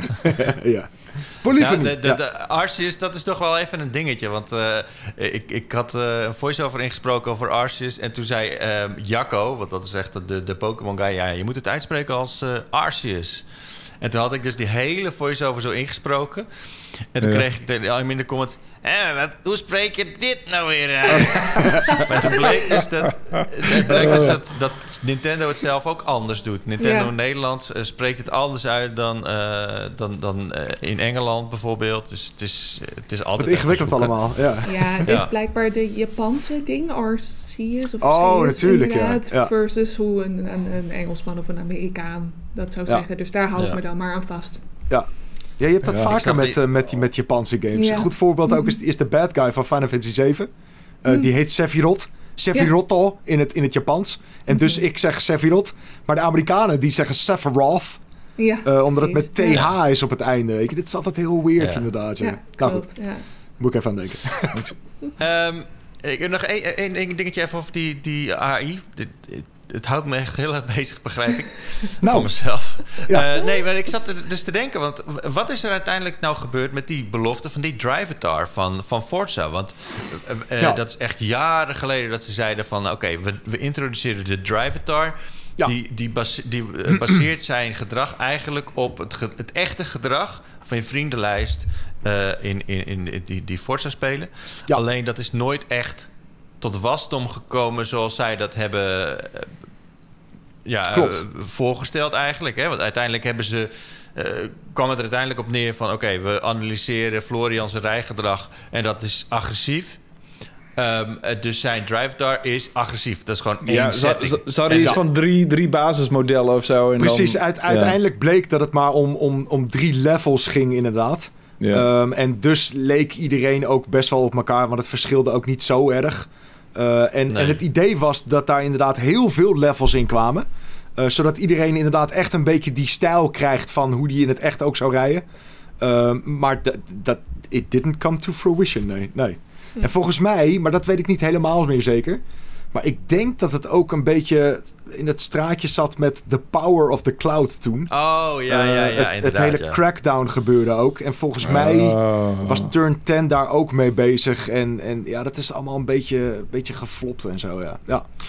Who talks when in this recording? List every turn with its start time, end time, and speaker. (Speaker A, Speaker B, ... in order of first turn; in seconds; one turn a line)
Speaker A: 0.2-2.2
Speaker B: 1.6-34.1
Speaker C: 21.2-22.5
Speaker A: 21.6-22.0
Speaker D: 23.3-24.3
Speaker A: 23.9-24.4
Speaker C: 26.8-27.1
Speaker A: 33.4-35.2
Speaker C: 34.6-44.6
Speaker B: 35.0-35.3
Speaker A: 38.0-39.5
Speaker B: 43.5-43.8
Speaker A: 45.6-50.5
Speaker B: 45.9-46.6
Speaker C: 47.7-48.7
Speaker A: 51.0-58.0
Speaker C: 54.5-54.8
Speaker C: 58.4-59.6
Speaker A: 58.6-62.9
Speaker B: 61.6-61.9
Speaker C: 62.2-63.2
Speaker A: 63.6-64.7
Speaker B: 65.2-96.1
Speaker A: 72.0-72.3
Speaker A: 73.0-73.3
Speaker B: 96.6-99.5
Speaker B: 100.6-110.0
Speaker A: 100.9-101.2
Speaker B: 110.8-115.0
Speaker D: 113.7-118.0
Speaker A: 117.0-130.4
Speaker D: 121.6-121.8
Speaker B: 127.3-127.6
Speaker A: 131.0-135.2
Speaker A: 135.8-142.2
Speaker A: 142.7-147.9
Speaker B: 147.9-149.8
Speaker A: 148.5-158.1
Speaker D: 151.4-152.7